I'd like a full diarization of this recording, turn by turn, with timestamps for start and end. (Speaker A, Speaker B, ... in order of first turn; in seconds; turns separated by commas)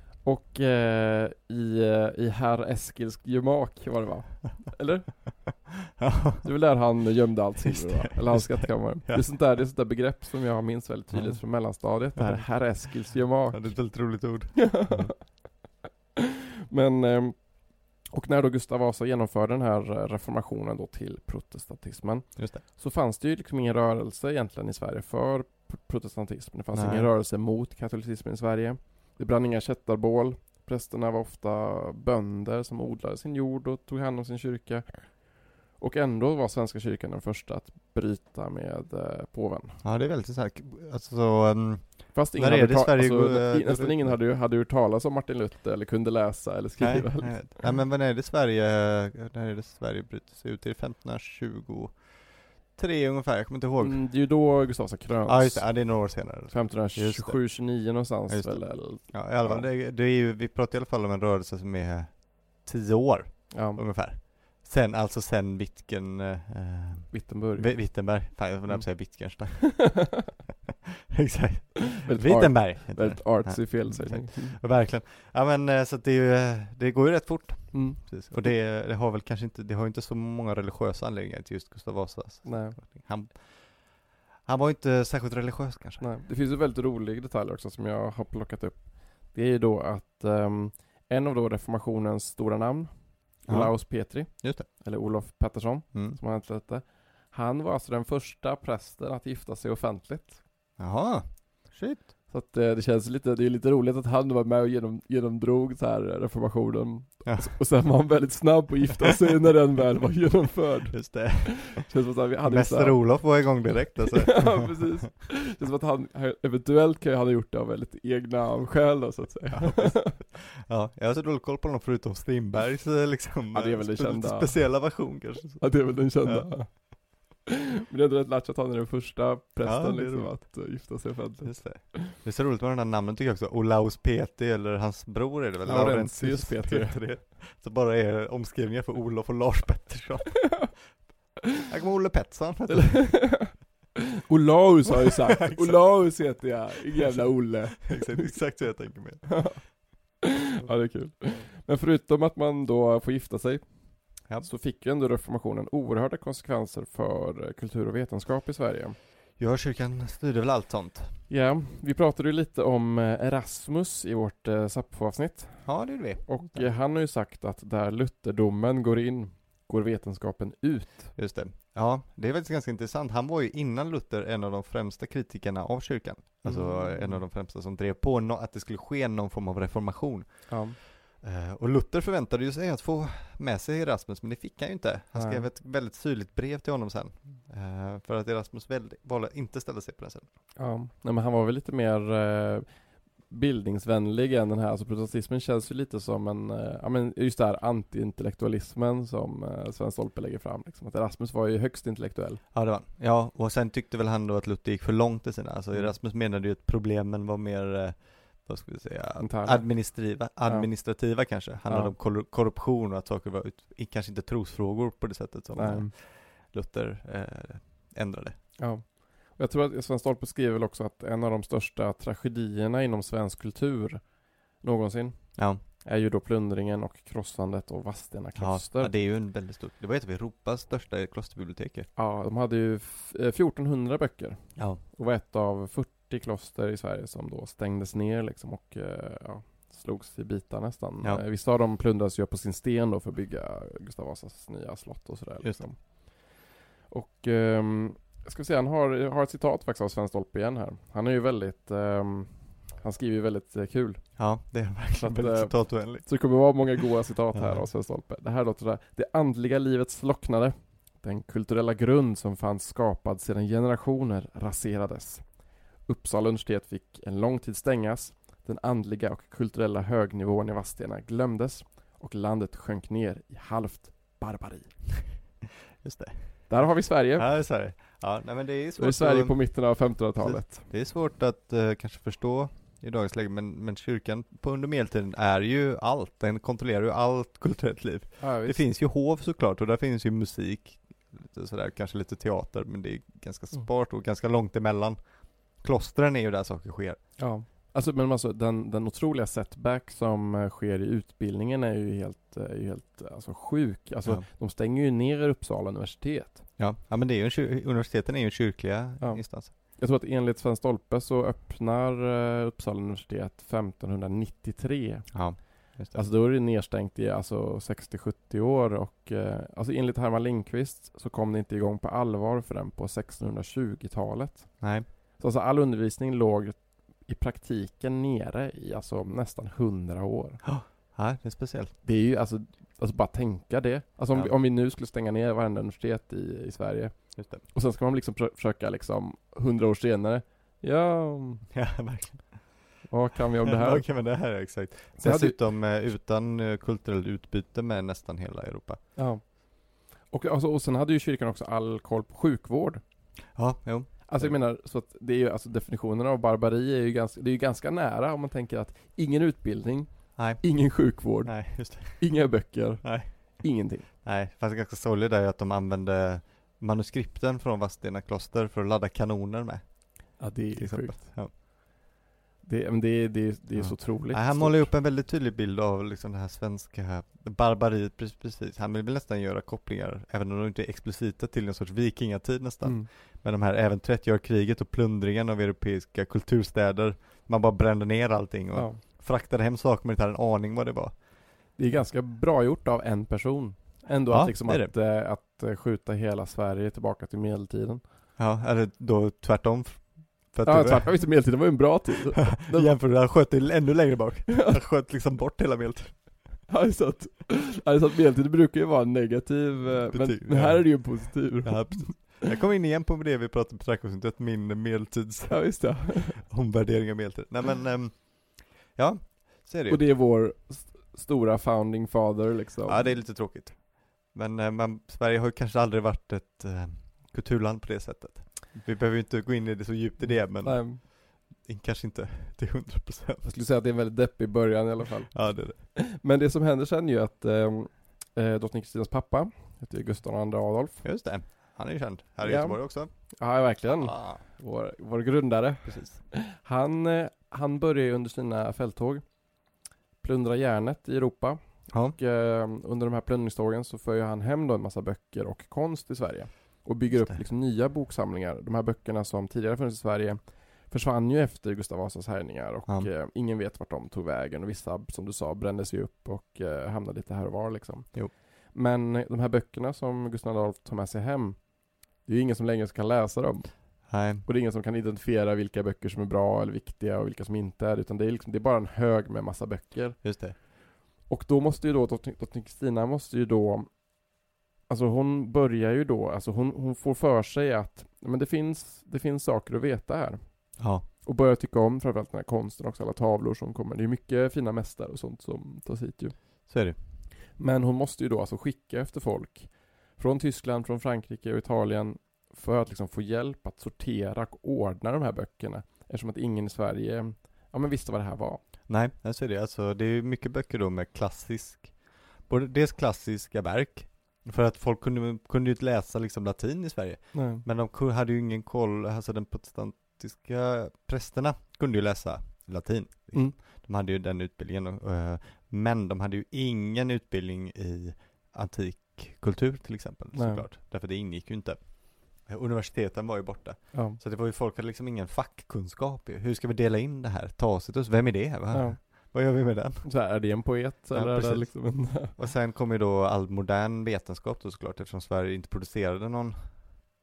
Speaker A: 0.2-5.4, Speaker B: 5.9-6.5, Speaker A: 6.4-13.7, Speaker B: 7.6-9.2, Speaker B: 11.1-11.4, Speaker B: 12.2-12.4, Speaker B: 13.5-15.1, Speaker A: 14.6-15.2, Speaker A: 16.2-17.4, Speaker A: 18.1-35.0, Speaker B: 26.7-27.1, Speaker A: 35.8-39.8, Speaker B: 39.8-44.2, Speaker A: 42.1-47.6, Speaker B: 46.8-52.0, Speaker B: 52.7-54.0, Speaker A: 53.8-55.8, Speaker B: 55.3-57.4, Speaker A: 56.5-59.7, Speaker B: 58.3-70.1, Speaker A: 63.5-63.8, Speaker A: 67.1-67.7, Speaker A: 69.6-70.2, Speaker B: 70.9-86.0, Speaker A: 71.9-74.6, Speaker A: 77.7-78.1, Speaker A: 82.4-82.8, Speaker A: 86.0-100.4, Speaker B: 93.5-93.7, Speaker B: 94.3-94.7, Speaker B: 100.8-102.1, Speaker A: 102.3-113.0, Speaker B: 110.9-111.9, Speaker B: 112.4-114.8, Speaker A: 114.1-120.2, Speaker B: 119.5-126.5, Speaker A: 123.5-124.8, Speaker A: 125.6-127.0, Speaker A: 127.5-132.1, Speaker B: 129.6-130.3, Speaker B: 131.4-140.9, Speaker A: 135.6-137.0, Speaker B: 141.6-143.2, Speaker A: 142.7-143.5, Speaker A: 144.3-148.3, Speaker B: 145.0-145.9, Speaker B: 147.8-149.5, Speaker A: 149.3-149.6, Speaker A: 150.2-153.6, Speaker A: 154.4-158.9, Speaker B: 159.4-161.1, Speaker A: 161.3-165.7, Speaker B: 165.7-166.7, Speaker A: 166.2-171.2, Speaker B: 171.2-190.2, Speaker A: 176.4-177.2, Speaker A: 180.5-180.8, Speaker A: 185.2-185.4, Speaker A: 190.6-192.7, Speaker A: 193.3-202.4, Speaker B: 202.5-218.3, Speaker A: 209.2-209.9, Speaker A: 211.7-211.9, Speaker A: 215.5-215.9, Speaker A: 218.6-224.0, Speaker A: 224.6-228.9, Speaker B: 228.4-231.9, Speaker A: 231.9-246.1, Speaker A: 246.9-254.1, Speaker B: 254.2-256.1, Speaker A: 255.0-265.2, Speaker B: 257.3-257.6, Speaker A: 265.9-274.7, Speaker B: 275.8-276.4, Speaker A: 276.5-277.3, Speaker B: 277.1-279.4, Speaker A: 278.8-280.7, Speaker B: 280.2-295.0, Speaker A: 288.2-288.6, Speaker B: 295.6-297.0, Speaker A: 297.2-306.4, Speaker B: 306.6-309.5, Speaker A: 309.0-315.1, Speaker B: 315.1-316.0, Speaker A: 315.9-324.6, Speaker B: 324.6-324.9, Speaker A: 325.2-330.4, Speaker B: 330.4-331.7, Speaker A: 331.8-341.4, Speaker B: 337.2-337.4, Speaker B: 341.5-342.6, Speaker A: 342.9-343.9, Speaker B: 343.4-348.8, Speaker A: 345.0-345.4, Speaker A: 348.9-352.8, Speaker B: 353.3-354.3, Speaker A: 354.1-363.9, Speaker B: 360.2-360.4, Speaker B: 361.2-362.0, Speaker B: 362.8-363.1, Speaker B: 364.0-371.3, Speaker A: 370.2-371.2, Speaker A: 372.4-374.7, Speaker B: 373.5-390.9, Speaker A: 382.6-382.9, Speaker A: 388.5-388.8, Speaker A: 391.6-397.8, Speaker B: 394.1-394.7, Speaker B: 398.2-401.0, Speaker A: 400.4-402.7, Speaker B: 402.2-405.9, Speaker A: 406.5-412.2, Speaker B: 409.7-419.8, Speaker A: 415.3-416.2, Speaker A: 419.7-423.0, Speaker B: 422.6-433.2, Speaker A: 430.1-430.8, Speaker A: 433.2-440.8, Speaker B: 435.1-435.6, Speaker B: 440.8-442.9, Speaker A: 442.2-449.0, Speaker B: 443.7-444.2, Speaker B: 445.6-446.0, Speaker A: 450.0-451.4, Speaker B: 451.7-451.9, Speaker A: 451.9-471.5, Speaker B: 456.9-457.2, Speaker A: 472.0-480.4, Speaker B: 473.9-474.2, Speaker B: 480.0-480.4, Speaker A: 481.1-483.7, Speaker A: 484.7-496.1, Speaker B: 490.6-490.8, Speaker B: 496.5-496.8, Speaker A: 497.4-508.4, Speaker B: 508.7-539.9, Speaker A: 517.1-517.4, Speaker A: 530.1-530.4, Speaker A: 533.7-534.0, Speaker A: 538.5-539.1, Speaker A: 539.8-542.1, Speaker B: 540.9-546.8